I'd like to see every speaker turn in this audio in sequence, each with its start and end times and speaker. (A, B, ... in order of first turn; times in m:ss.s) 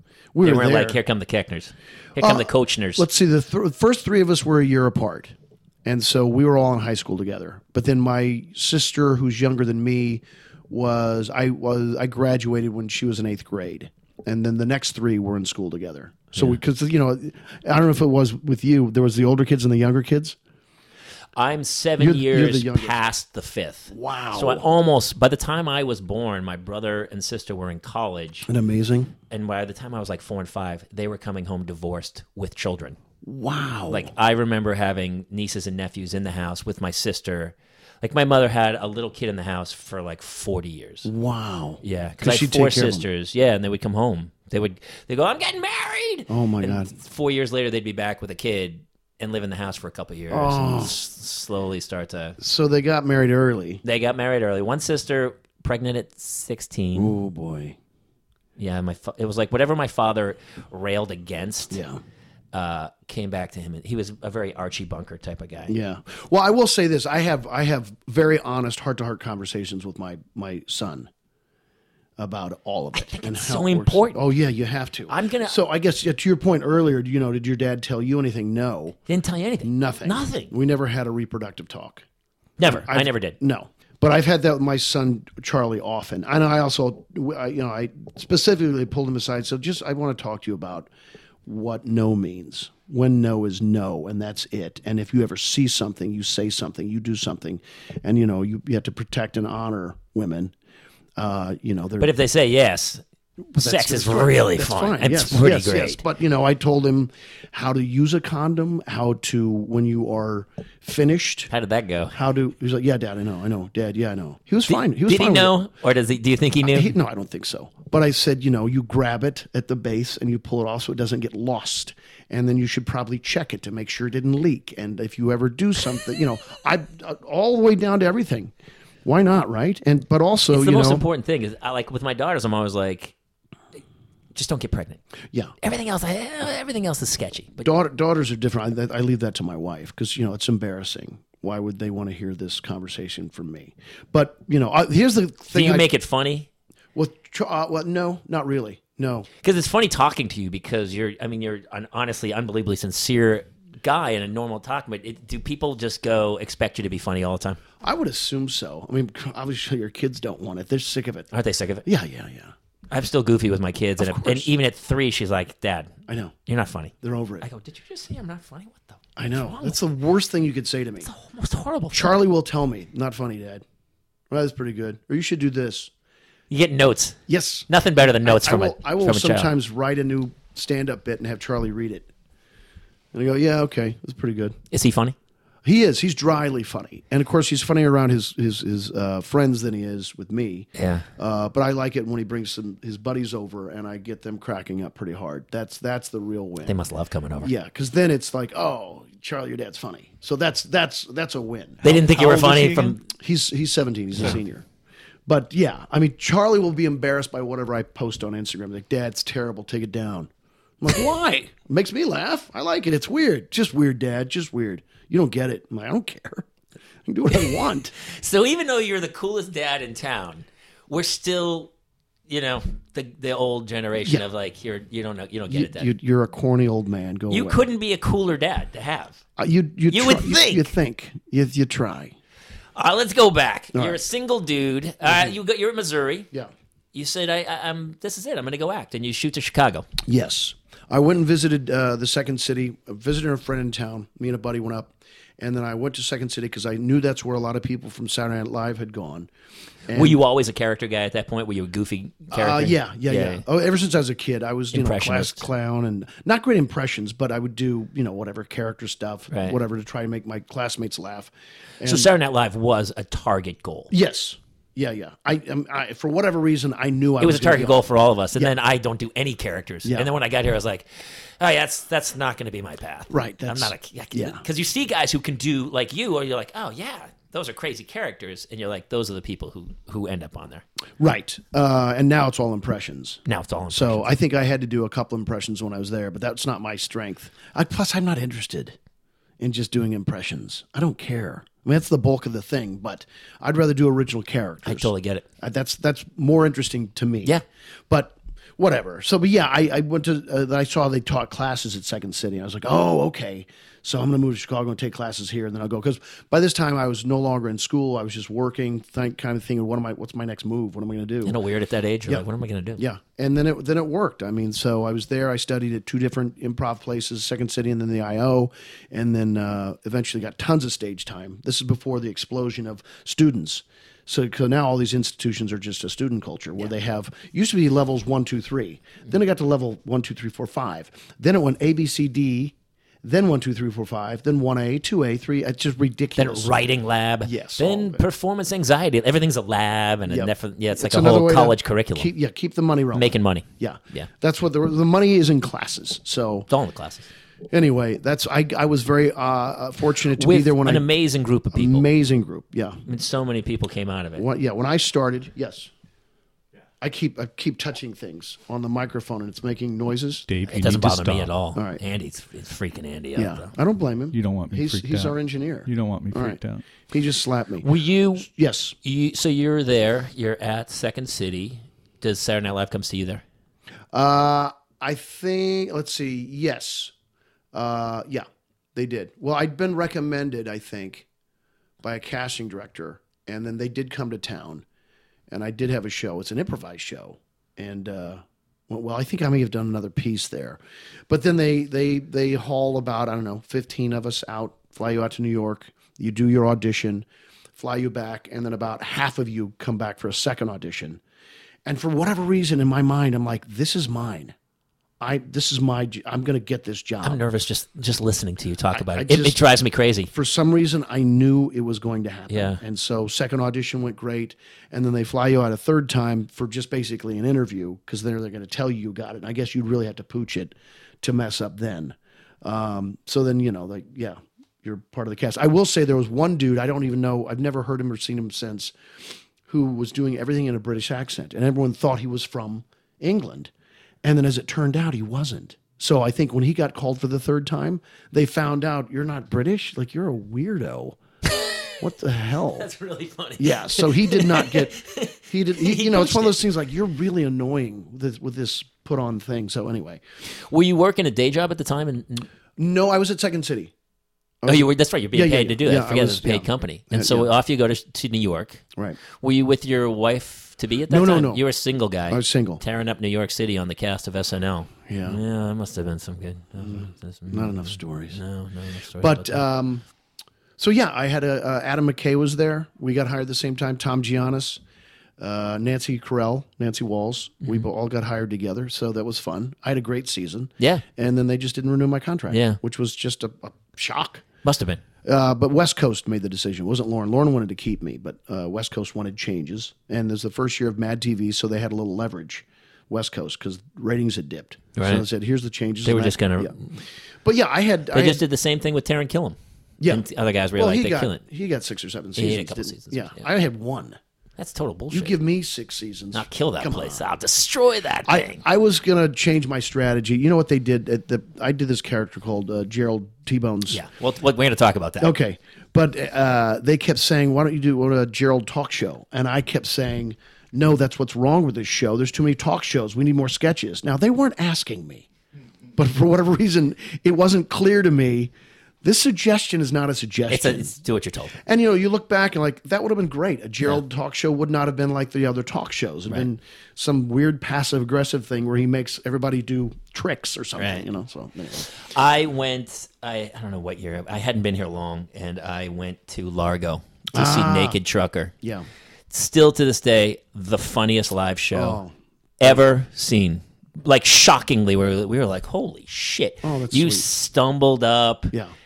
0:00.3-0:01.0 A
0:00.4-0:03.0 B
0:02.2-0:20.4 A
0:21.3-0:28.5 B
0:22.0-0:23.0 A
0:23.9-0:24.7 A
0:28.5-0:29.1 A
0:29.3-0:33.0 B
0:33.2-0:34.1 A
0:33.9-0:41.1 B
0:41.0-0:43.0 A
0:41.8-0:52.4 B
0:46.3-0:46.9 A
0:50.3-0:51.0 A
0:52.4-0:53.8 A
0:53.8-0:57.1 B
0:56.9-0:57.8 A
0:58.6-1:01.8 B
1:01.7-1:02.0 A
1:02.5-1:05.7 B
1:05.7-1:11.1 A
1:12.2-1:19.0 A
1:13.0-1:14.2 B
1:15.1-1:15.6 B
1:19.1-1:20.5 B
1:19.6-1:22.0 A
1:22.6-1:23.4 B
1:22.6-1:30.9 A
1:31.4-1:40.5 A
1:41.2-1:42.1 A
1:42.0-1:43.0 B
1:43.5-1:46.0 B
1:43.6-1:51.5 A
1:51.5-1:52.2 B
1:52.1-1:55.5 A
1:54.7-1:56.9 B
1:56.6-2:08.5 A
2:09.0-2:11.0 A
2:10.5-2:13.1 B
2:14.3-2:15.0 B
2:15.6-2:17.6 B
2:17.6-2:25.9 A
2:25.5-2:26.5 B
2:26.9-2:29.3 A
2:29.4-2:37.6 B
2:37.8-2:41.3 A
2:41.3-2:41.9 B
2:41.8-2:42.5 A
2:42.9-2:49.8 B
2:44.0-2:44.5 A
2:46.1-2:46.3 A
2:47.0-2:47.4 A
2:49.2-2:51.1 A
2:51.0-2:52.1 B
2:51.9-2:53.6 A
2:54.3-2:55.9 A
2:56.5-2:59.5 B
2:57.3-2:57.7 A
2:58.2-3:02.1 A
3:03.1-3:04.6 A
3:04.7-3:05.2 B
3:05.6-3:16.7 A
3:10.8-3:11.1 B
3:16.6-3:17.5 B
3:17.4-3:21.8 A
3:21.8-3:23.0 C
3:21.8-3:23.0 B
3:23.0-3:24.6 A
3:25.2-3:30.3 A
3:30.8-3:36.5 A
3:37.0-3:37.9 A
3:37.4-3:41.7 B
3:42.3-3:45.9 B
3:45.5-3:47.6 A
3:47.3-3:49.2 B
3:49.4-3:52.1 A
3:49.9-3:50.7 B
3:52.8-3:56.3 B
3:53.7-3:54.0 A
3:55.0-3:55.3 A
3:56.9-3:59.9 B
4:00.0-4:09.3 A
4:09.9-4:10.2 A
4:09.9-4:13.4 B
4:12.3-4:22.1 A
4:14.7-4:15.5 B
4:19.3-4:19.6 B
4:21.8-4:23.9 B
4:23.9-4:28.5 A
4:27.2-4:30.9 B
4:29.8-4:30.1 A
4:31.4-4:40.6 B
4:33.1-4:34.4 A
4:41.0-4:48.8 A
4:43.2-4:44.1 B
4:49.4-4:57.3 A
4:54.6-4:55.2 B
4:57.9-5:11.4 A
5:11.2-5:12.8 B
5:12.8-5:36.6 A
5:36.2-5:42.1 B
5:37.2-5:38.0 A
5:40.1-5:46.5 A
5:42.9-5:44.1 B
5:46.5-5:47.1 B
5:47.5-5:50.8 A
5:50.2-5:51.9 B
5:51.5-5:52.8 A
5:52.8-5:54.2 B
5:54.2-5:55.7 A
5:56.8-6:00.2 A
6:00.3-6:01.3 C
6:00.4-6:03.5 B
6:01.5-6:01.8 A
6:03.2-6:07.6 A
6:04.1-6:06.7 C
6:07.6-6:08.3 B
6:08.2-6:08.7 A
6:08.8-6:13.2 B
6:13.9-6:16.9 A
6:17.5-6:21.1 A
6:21.8-6:24.6 A
6:25.3-6:37.0 A
6:37.6-6:41.0 A
6:41.6-6:44.3 A
6:45.0-6:47.2 A
6:47.0-6:50.1 B
6:48.7-6:49.4 A
6:50.1-7:08.7 A
6:52.3-6:52.6 B
7:09.4-7:13.5 A
7:14.0-7:21.0 A
7:21.8-7:22.7 A
7:22.6-7:26.4 B
7:23.4-7:24.8 A
7:25.3-7:30.0 A
7:30.3-7:32.3 B
7:32.6-7:33.7 A
7:34.4-7:37.3 A
7:34.4-7:49.4 B
7:38.7-7:39.0 A
7:40.9-7:41.4 A
7:42.1-7:42.6 A
7:44.9-7:45.2 A
7:46.6-7:48.2 A
7:49.0-7:49.8 A
7:50.6-7:54.6 A
7:55.2-8:04.2 A
8:00.6-8:00.8 B
8:02.3-8:02.6 B
8:04.4-8:04.8 B
8:05.0-8:16.6 A
8:14.8-8:15.0 B
8:15.8-8:16.8 B
8:17.2-8:18.2 A
8:17.9-8:19.4 B
8:19.8-8:24.0 A
8:19.9-8:21.2 B
8:22.2-8:23.2 B
8:24.4-8:25.2 B
8:24.9-8:27.0 A
8:26.1-8:28.4 B
8:28.0-8:33.8 A
8:33.7-8:35.1 B
8:35.0-8:45.1 A
8:45.8-8:48.3 A
8:48.8-8:50.7 A
8:50.3-8:51.4 B
8:51.4-9:01.7 A
9:00.6-9:00.9 B
9:01.6-9:08.3 B
9:07.1-9:07.8 A
9:08.4-9:08.7 A
9:09.1-9:11.8 B
9:11.5-9:11.9 A
9:12.4-9:18.3 B
9:16.4-9:17.0 A